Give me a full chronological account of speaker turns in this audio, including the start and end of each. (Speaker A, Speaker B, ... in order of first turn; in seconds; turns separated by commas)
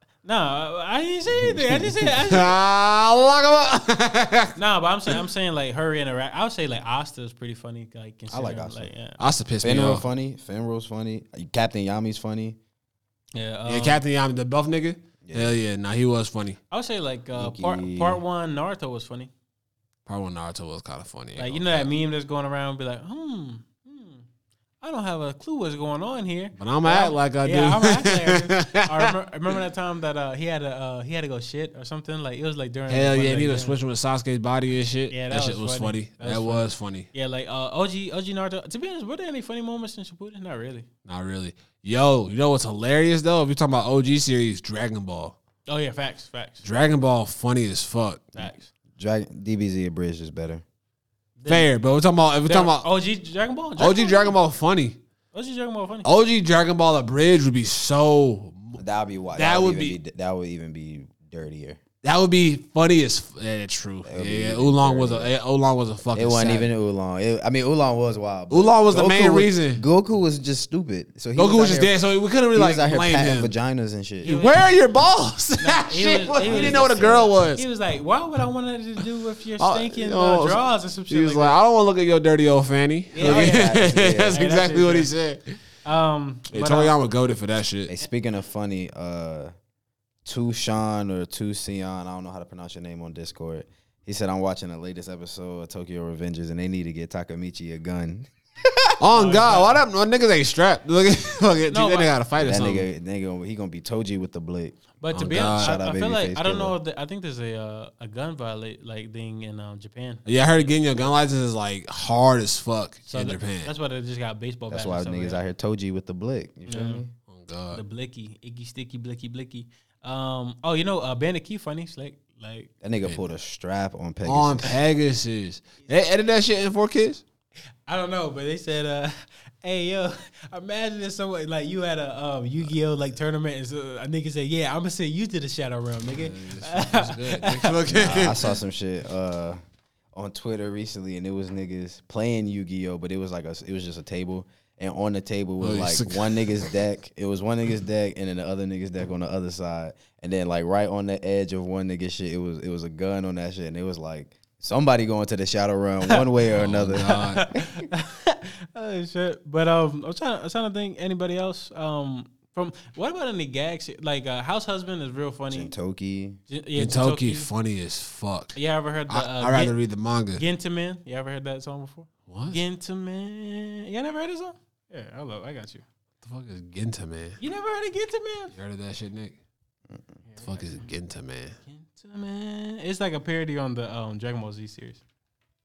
Speaker A: 0.2-2.6, Speaker B: 1.3-2.1, Speaker C: 2.3-4.6, Speaker A: 4.6-9.2, Speaker B: 8.3-8.9, Speaker C: 9.2-10.1, Speaker B: 9.6-12.6, Speaker A: 13.3-14.0, Speaker C: 13.7-16.6, Speaker B: 15.2-15.6, Speaker A: 16.7-19.3, Speaker B: 17.4-18.2, Speaker C: 20.1-21.9, Speaker A: 21.4-24.2, Speaker A: 24.8-33.8, Speaker C: 26.6-29.1, Speaker C: 32.9-37.1, Speaker A: 35.1-40.9, Speaker C: 41.1-45.4, Speaker A: 45.7-46.7, Speaker C: 46.6-48.5, Speaker A: 48.4-48.7, Speaker B: 49.0-50.6, Speaker A: 51.4-51.7, Speaker C: 51.5-52.9, Speaker A: 52.5-54.4, Speaker C: 53.8-55.0, Speaker A: 55.3-56.1, Speaker C: 56.0-58.8, Speaker B: 58.8-61.8, Speaker C: 59.4-60.0, Speaker C: 62.0-66.7, Speaker B: 64.0-65.3, Speaker B: 66.1-72.0, Speaker C: 68.5-69.8, Speaker C: 71.3-73.5, Speaker B: 72.5-74.3, Speaker A: 74.2-74.6, Speaker C: 74.2-77.6, Speaker A: 75.6-81.6, Speaker B: 76.4-77.3, Speaker C: 79.6-85.6, Speaker A: 83.1-83.8, Speaker B: 83.2-84.4, Speaker A: 84.3-85.1, Speaker A: 85.8-87.0, Speaker C: 86.5-87.9, Speaker B: 87.9-89.5, Speaker B: 90.2-99.0, Speaker C: 99.0-102.9, Speaker A: 99.1-99.8, Speaker A: 101.7-102.1, Speaker B: 102.4-106.8, Speaker A: 105.0-110.7, Speaker C: 105.1-105.8, Speaker C: 110.3-113.7, Speaker A: 113.1-115.4, Speaker B: 114.7-117.1, Speaker A: 116.7-117.0, Speaker C: 117.3-117.8, Speaker A: 117.7-122.7, Speaker B: 122.8-124.8, Speaker C: 124.2-127.2, Speaker A: 127.9-138.2, Speaker C: 136.1-138.5, Speaker B: 137.9-139.6, Speaker B: 140.1-157.6, Speaker C: 145.6-146.6, Speaker C: 156.5-157.4, Speaker A: 157.0-165.7, Speaker B: 165.5-166.4, Speaker A: 166.5-167.5, Speaker C: 166.8-168.6, Speaker A: 168.6-169.8, Speaker C: 169.1-170.4, Speaker A: 170.3-175.8, Speaker C: 172.3-172.6, Speaker C: 176.2-177.4, Speaker A: 177.4-178.5, Speaker C: 178.5-179.4, Speaker A: 180.3-180.9, Speaker C: 180.4-181.6, Speaker A: 181.7-185.0